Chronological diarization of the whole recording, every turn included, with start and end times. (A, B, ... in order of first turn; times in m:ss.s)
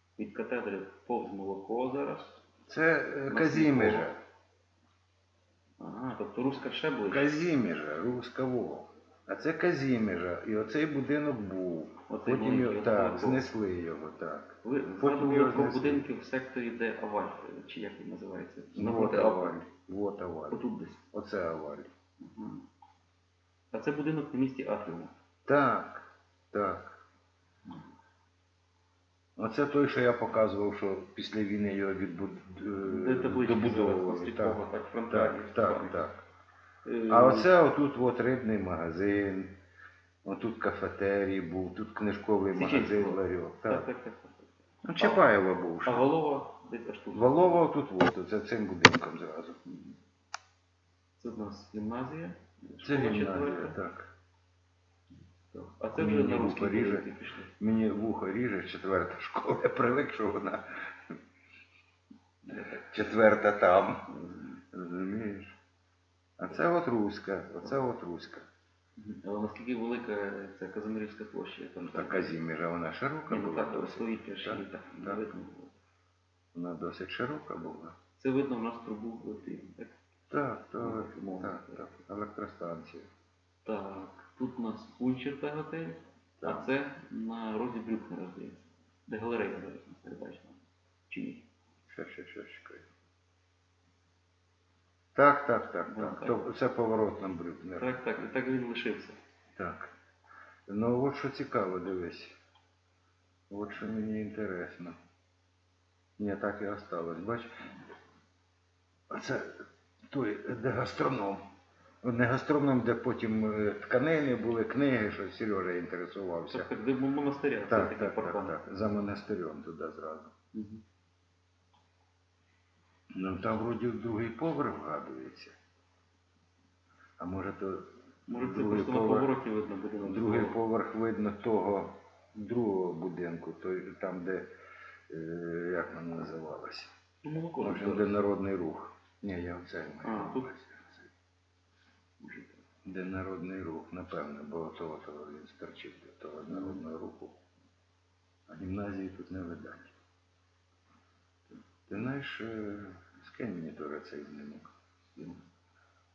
0:00.2-0:02.4 A
0:02.7-0:04.2 B
0:03.3-0:04.1 A
0:05.8-0:07.5 A
0:07.1-0:16.1 B
0:12.1-0:13.5 A
0:14.6-0:19.6 A
0:18.8-0:21.9 B
0:20.5-0:21.0 A
0:22.2-0:22.7 A
0:23.7-0:25.1 A
0:25.5-0:27.0 B
0:29.4-0:36.2 B
0:32.8-0:36.0 A
0:36.8-0:37.5 A
0:37.1-0:39.6 B
0:40.2-0:43.9 B
0:42.5-0:47.6 A
0:44.8-0:46.1 B
0:47.1-0:49.6 B
0:49.7-0:50.0 A
0:51.2-0:53.8 A
0:52.8-0:54.1 B
0:55.5-0:57.5 A
0:56.0-1:01.2 B
1:02.5-1:02.9 A
1:02.5-1:04.1 B
1:04.1-1:04.6 A
1:04.7-1:05.6 B
1:06.4-1:08.5 B
1:09.0-1:12.4 A
1:11.8-1:15.3 B
1:13.3-1:15.7 A
1:16.5-1:18.0 B
1:18.2-1:20.0 A
1:20.3-1:23.1 B
1:20.8-1:22.0 A
1:23.6-1:31.5 A
1:26.4-1:26.7 B
1:31.9-1:32.9 B
1:35.2-1:38.3 B
1:35.9-1:36.4 A
1:37.8-1:39.2 A
1:39.6-1:39.9 B
1:40.7-1:42.4 B
1:43.5-1:45.0 B
1:46.2-1:47.6 B
1:49.1-1:51.4 B
1:52.0-1:56.7 B
1:56.5-1:58.6 A
1:57.7-2:00.3 B
2:00.5-2:00.8 A
2:03.1-2:05.6 B
2:07.2-2:09.3 B
2:08.3-2:10.6 A
2:10.0-2:14.5 B
2:15.1-2:16.9 B
2:17.2-2:18.2 A
2:17.6-2:21.1 B
2:20.0-2:20.5 A
2:22.2-2:22.6 A
2:22.8-2:27.4 B
2:26.5-2:26.8 A
2:28.5-2:30.0 B
2:31.9-2:34.7 B
2:35.2-2:35.4 A